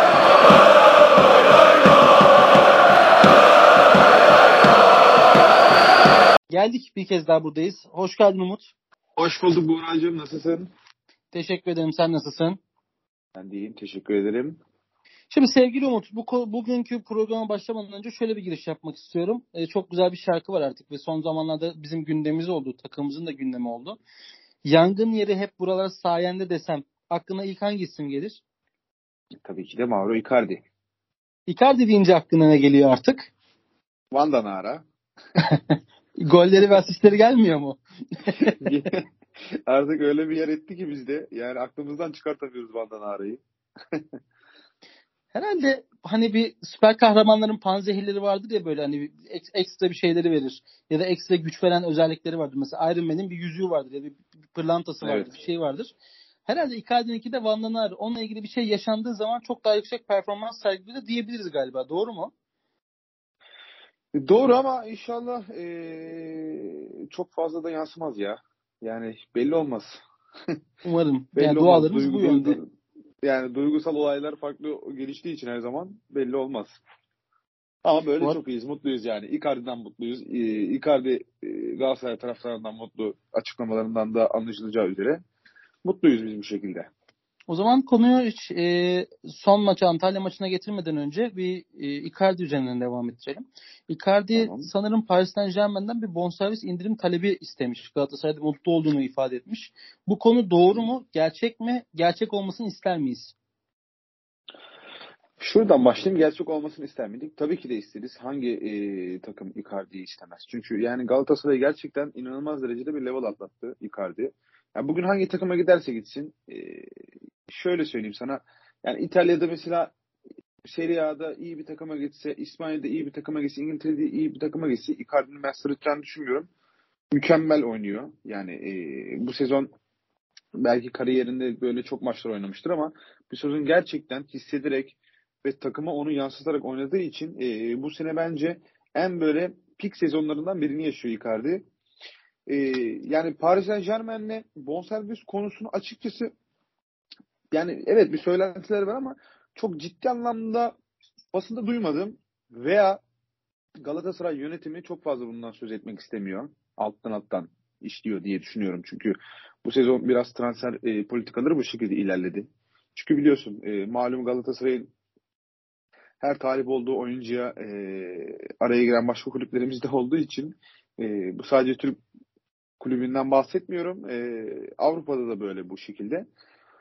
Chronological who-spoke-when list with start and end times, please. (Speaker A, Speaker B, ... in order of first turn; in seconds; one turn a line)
Speaker A: 6.5-8.7
Speaker B: 9.2-10.7
Speaker A: 11.3-12.6
Speaker B: 13.3-14.6
Speaker A: 15.3-24.0
Speaker A: 24.7-28.4
Speaker B: 29.4-30.6
Speaker A: 31.5-33.3
Speaker B: 34.1-34.8
Speaker A: 35.4-38.9
Speaker B: 38.4-39.0
Speaker B: 39.7-43.4
Speaker A: 45.3-55.9
Speaker B: 55.0-55.3
Speaker A: 56.5-62.3
Speaker B: 64.1-70.0
Speaker A: 70.8-72.6
Speaker B: 71.4-72.7
Speaker B: 73.2-76.8
Speaker B: 77.8-85.2
Speaker B: 85.8-86.9
Speaker A: 87.5-103.3
Speaker B: 94.3-94.7
Speaker B: 105.4-116.9
Speaker B: 117.5-119.9
Speaker B: 120.7-126.5
Speaker B: 127.1-129.7
Speaker B: 130.6-141.6
Speaker B: 142.5-146.3
Speaker B: 147.5-150.8
Speaker B: 151.3-153.0
Speaker B: 153.8-164.9
Speaker B: 166.2-172.0
Speaker B: 172.8-176.2